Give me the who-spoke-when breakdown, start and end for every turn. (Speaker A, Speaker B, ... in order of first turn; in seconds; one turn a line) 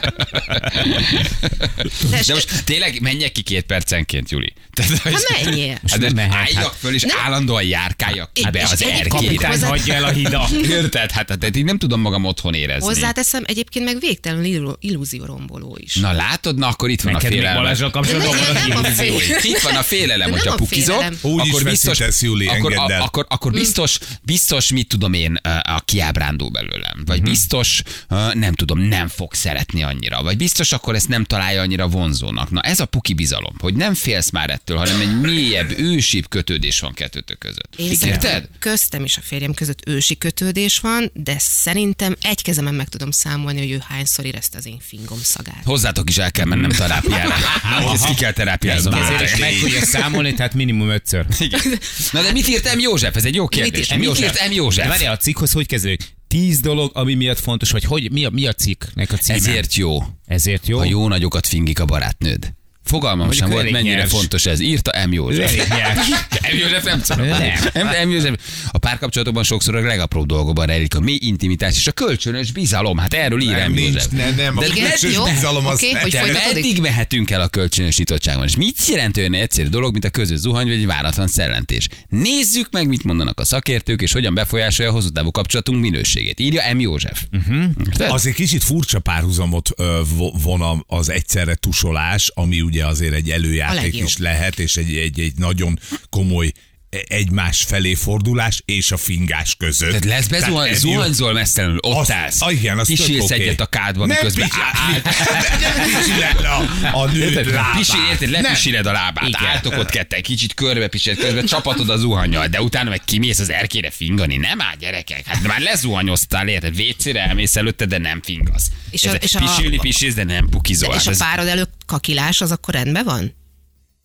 Speaker A: 0.4-9.8
Speaker B: 2.0-2.5
Speaker B: 5.1-5.8
Speaker C: 5.9-6.7
Speaker B: 8.4-10.7
Speaker C: 8.4-10.7
Speaker A: 10.5-13.1
Speaker B: 12.8-16.0
Speaker A: 15.9-38.5
Speaker C: 17.0-19.3
Speaker B: 18.0-21.2
Speaker D: 21.2-23.1
Speaker C: 27.1-27.4
Speaker B: 37.8-45.6
Speaker A: 45.6-49.9
Speaker C: 46.5-46.8
Speaker D: 47.6-48.1
Speaker C: 47.6-51.3
Speaker D: 48.6-49.8
Speaker A: 51.3-55.0
Speaker B: 51.5-52.4
Speaker B: 53.5-54.4
Speaker C: 53.9-59.6
Speaker A: 59.3-60.1
Speaker C: 60.3-61.0
Speaker A: 60.8-88.2
Speaker C: 63.2-64.3
Speaker C: 65.3-66.2
Speaker C: 67.2-67.8
Speaker D: 73.4-76.4
Speaker B: 74.5-76.7
Speaker C: 87.3-87.8
Speaker D: 88.0-101.1
Speaker B: 93.7-94.1
Speaker A: 99.9-106.4
Speaker D: 101.9-108.7
Speaker C: 107.1-107.7
Speaker A: 107.7-121.2
Speaker C: 109.2-109.8
Speaker B: 118.9-119.9
Speaker B: 120.8-123.3